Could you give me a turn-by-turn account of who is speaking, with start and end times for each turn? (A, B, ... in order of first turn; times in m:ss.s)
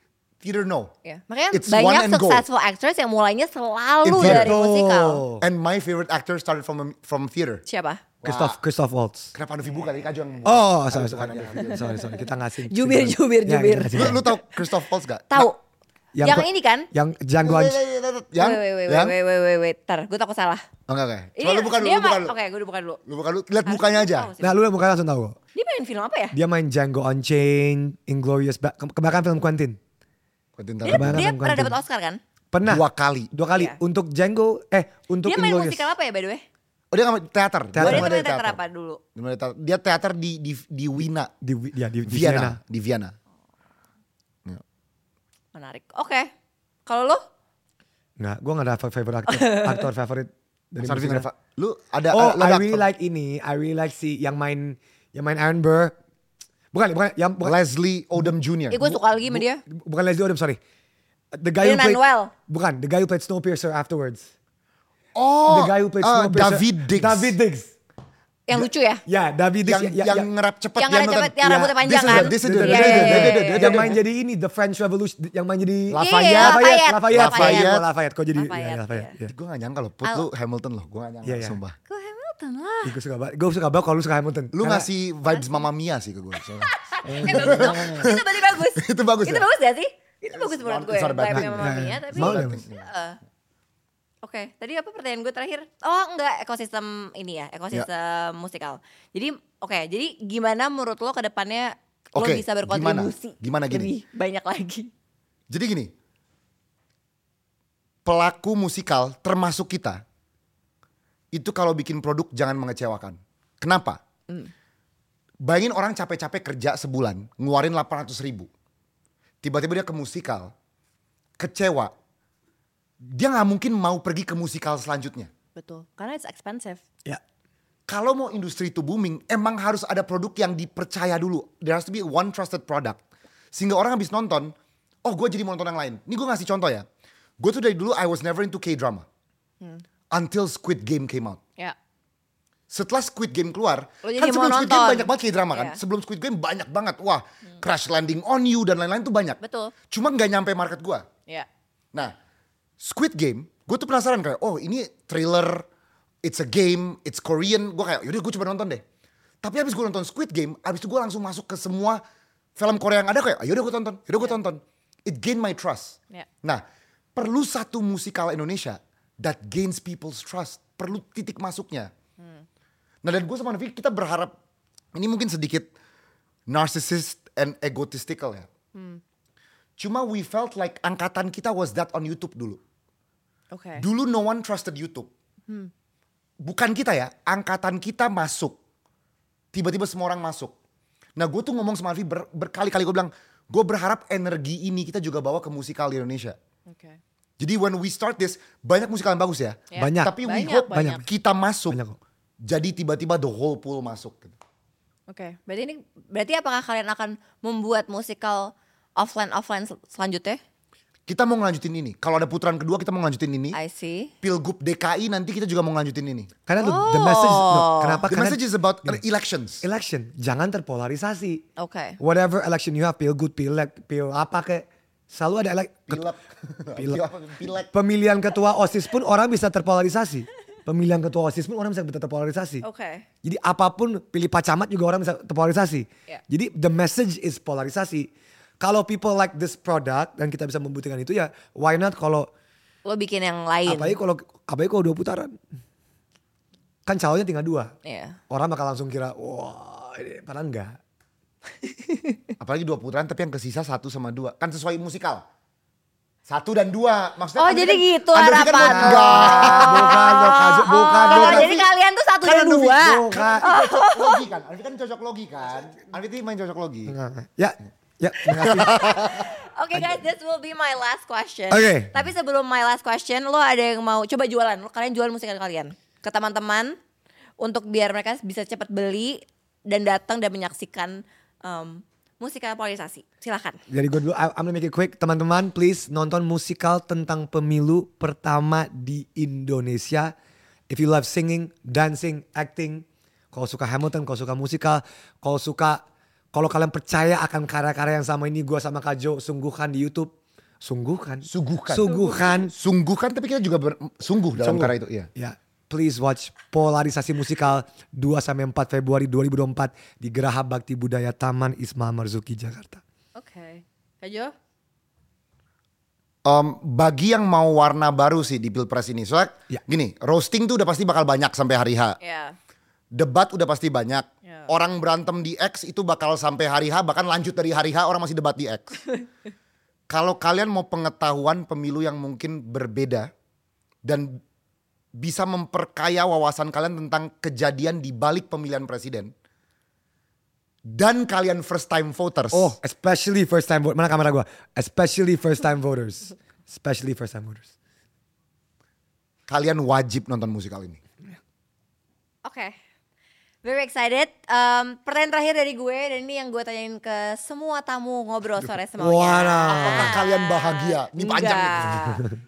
0:00.4-0:00.9 A
0:01.0-0:05.2 B
0:01.5-0:02.4 A
0:04.0-0:04.6 A
0:04.2-0:05.4 C
0:05.4-0:07.6 A
0:07.6-0:08.0 B
0:08.2-0:09.3 C
0:08.2-0:08.6 A
0:09.3-0:11.9 A
0:10.4-0:14.2 C
0:12.7-0:14.4 B
0:13.9-0:15.5 A
0:15.3-0:15.6 B
0:16.1-0:17.8 C
0:16.2-0:16.9 B
0:17.4-0:19.1 A
0:18.4-0:20.6 B
0:20.9-0:22.4 A
0:21.4-0:23.0 B
0:23.0-0:24.3 A
0:23.6-0:24.6 B
0:24.4-0:25.4 C
0:25.5-0:26.3 B
0:26.3-0:29.8 C
0:30.6-0:31.3 A
0:30.8-0:32.2 B
0:30.9-0:31.8 C
0:32.5-0:35.9 C
0:32.6-0:33.3 A
0:35.2-0:36.4 B
0:36.9-0:38.6 A
0:37.7-0:38.2 C
0:37.8-0:39.0 B
0:39.1-0:41.3 A
0:41.4-0:42.6 C
0:42.1-0:43.1 A
0:45.5-0:46.3 B
0:46.8-0:47.2 B
0:48.2-0:51.3 C
0:49.3-0:49.9 B
0:50.8-0:52.9 A
0:52.1-0:55.9 C
0:56.7-0:57.5 C
0:57.4-0:58.8 A
0:58.7-0:59.6 B
0:58.8-1:00.6 C
1:01.3-1:04.3 C
1:01.6-1:02.3 B
1:05.1-1:07.4 A
1:05.5-1:07.7 C
1:08.5-1:09.0 B
1:09.1-1:10.3 C
1:09.6-1:14.0 A
1:10.8-1:14.0 B
1:12.0-1:19.3 C
1:15.9-1:17.8 A
1:16.0-1:17.8 B
1:18.3-1:19.1 B
1:19.2-1:21.8 A
1:21.2-1:21.6 C
1:21.9-1:22.9 B
1:22.8-1:24.9 C
1:24.5-1:29.5 A
1:26.5-1:33.2 B
1:27.0-1:28.1 C
1:30.3-1:32.9 A
1:31.3-1:32.6 C
1:34.2-1:44.9 B
1:42.1-1:43.9 A
1:45.5-1:45.9 A
1:48.0-1:50.0 A
1:51.3-1:54.0 A
1:55.4-1:58.5 A
1:59.4-2:00.5 A
2:01.4-2:01.9 A
2:03.0-2:05.3 A
2:05.6-2:06.8 B
2:07.9-2:13.0 A
2:13.5-2:14.5 A
2:15.0-2:16.8 A
2:17.4-2:19.0 A
2:20.1-2:21.4 A
2:22.7-2:31.0 A
2:24.0-2:25.8 B
2:29.4-2:29.7 B
2:32.8-2:35.6 A
2:36.2-2:38.8 A
2:39.4-2:42.0 A
2:42.6-2:46.6 A
2:47.2-2:51.9 A
2:52.2-2:52.4 B
2:53.0-2:54.3 A
2:54.9-2:55.7 A
2:56.5-2:58.5 A
2:58.7-2:59.0 B
2:59.8-3:02.6 A
3:03.5-3:03.8 B
3:03.8-3:05.1 A
3:06.4-3:08.6 A
3:09.5-3:10.5 A
3:11.2-3:16.4 A
3:16.7-3:17.0 B
3:17.4-3:21.8 A
3:19.7-3:21.0 B
3:19.8-3:20.2 C
3:20.7-3:21.0 C
3:21.7-3:22.0 C
3:22.4-3:24.4 A
3:25.1-3:30.4 B
3:31.1-3:33.6 A
3:33.5-3:34.1 B
3:34.2-3:36.3 A
3:36.4-3:39.0 C
3:36.6-3:38.0 B
3:38.1-3:39.6 A
3:39.6-3:41.4 C
3:41.6-3:42.0 B
3:42.0-3:46.0 C
3:45.9-3:47.7 A
3:46.8-3:47.0 C
3:47.7-3:52.6 C
3:52.6-3:53.0 B
3:53.2-3:58.1 C
3:58.6-4:02.3 C
4:02.8-4:04.0 B
4:03.6-4:05.3 C
4:06.8-4:07.7 C
4:07.8-4:08.2 B
4:08.3-4:10.8 C
4:12.4-4:15.2 A
4:16.3-4:20.3 A
4:17.4-4:24.2 B
4:18.5-4:21.6 C
4:21.0-4:21.7 A
4:22.2-4:23.5 C
4:23.1-4:26.9 A
4:26.9-4:28.9 C
4:28.2-4:29.3 A
4:29.0-4:36.8 B
4:31.5-4:31.9 C
4:37.4-4:43.6 B
4:43.7-4:50.1 C
4:50.7-5:02.5 C
5:01.3-5:05.1 A
5:04.4-5:12.8 C
5:13.2-5:14.3 B
5:16.2-5:22.0 A
5:22.0-5:22.4 B
5:22.9-5:28.8 A
5:24.2-5:24.5 B
5:29.9-5:33.1 A
5:33.8-5:34.2 A
5:35.0-5:39.1 A
5:40.7-5:42.6 A
5:42.3-5:47.5 C
5:49.3-5:50.8 A
5:52.2-5:52.6 B
5:53.4-6:02.0 B
5:58.4-6:00.0 C
5:59.5-6:02.0 A
6:01.8-6:02.2 C